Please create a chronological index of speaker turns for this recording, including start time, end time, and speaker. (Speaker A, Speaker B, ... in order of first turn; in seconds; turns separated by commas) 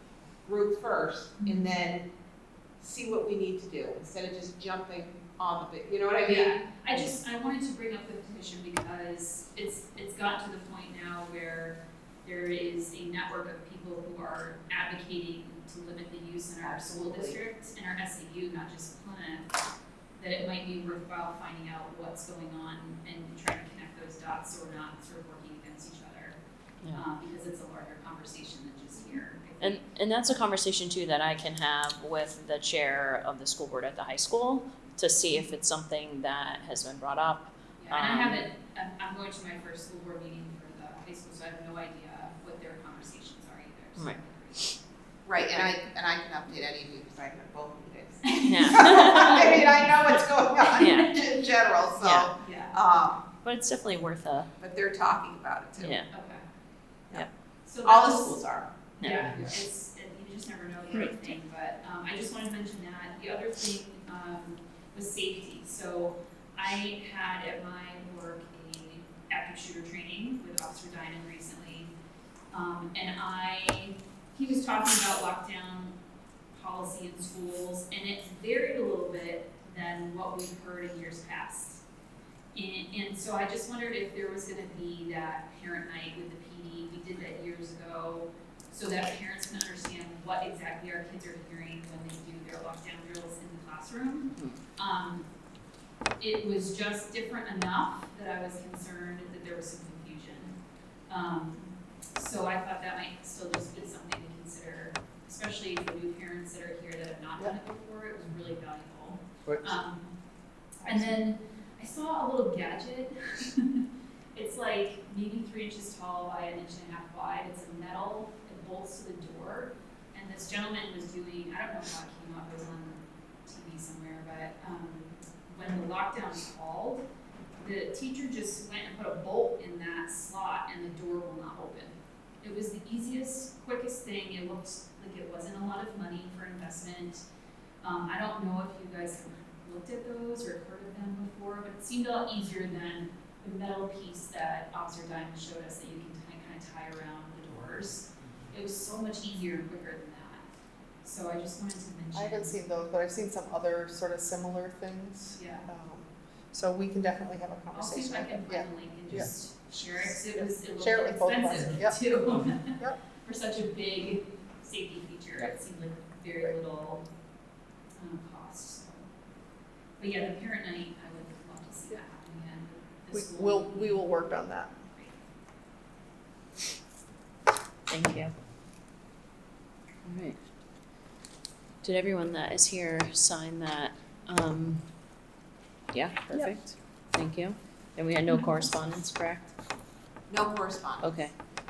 Speaker A: 0.4-2.0, Speaker B: 1.4-1.7, Speaker A: 2.8-7.1, Speaker B: 6.2-19.5, Speaker A: 16.6-17.4, Speaker B: 20.2-26.4, Speaker B: 26.9-29.8, Speaker C: 29.6-38.4, Speaker B: 37.8-44.7, Speaker C: 44.0-44.8, Speaker A: 45.2-53.2, Speaker B: 48.2-51.0, Speaker C: 48.4-49.6, Speaker C: 50.8-51.1, Speaker C: 52.0-52.3, Speaker B: 52.4-52.8, Speaker C: 53.4-54.5, Speaker A: 54.6-56.0, Speaker C: 55.8-56.1, Speaker B: 56.1-56.4, Speaker B: 57.6-71.9, Speaker A: 57.8-58.7, Speaker C: 59.0-59.3, Speaker A: 59.2-59.5, Speaker B: 72.5-76.0, Speaker B: 76.5-81.8, Speaker B: 82.5-95.3, Speaker B: 96.2-100.6, Speaker B: 101.1-110.1, Speaker D: 110.8-111.2, Speaker B: 110.8-127.0, Speaker B: 127.6-137.2, Speaker B: 137.8-150.5, Speaker B: 151.0-152.6, Speaker D: 152.1-159.3, Speaker B: 155.3-155.7, Speaker B: 157.7-167.1, Speaker D: 159.8-162.1, Speaker B: 168.0-169.1, Speaker B: 170.0-174.1, Speaker D: 173.1-174.8, Speaker B: 174.9-175.2, Speaker C: 177.9-178.3, Speaker C: 180.0-180.4, Speaker C: 181.8-184.8, Speaker C: 185.9-189.5, Speaker A: 190.3-191.2, Speaker C: 191.0-191.3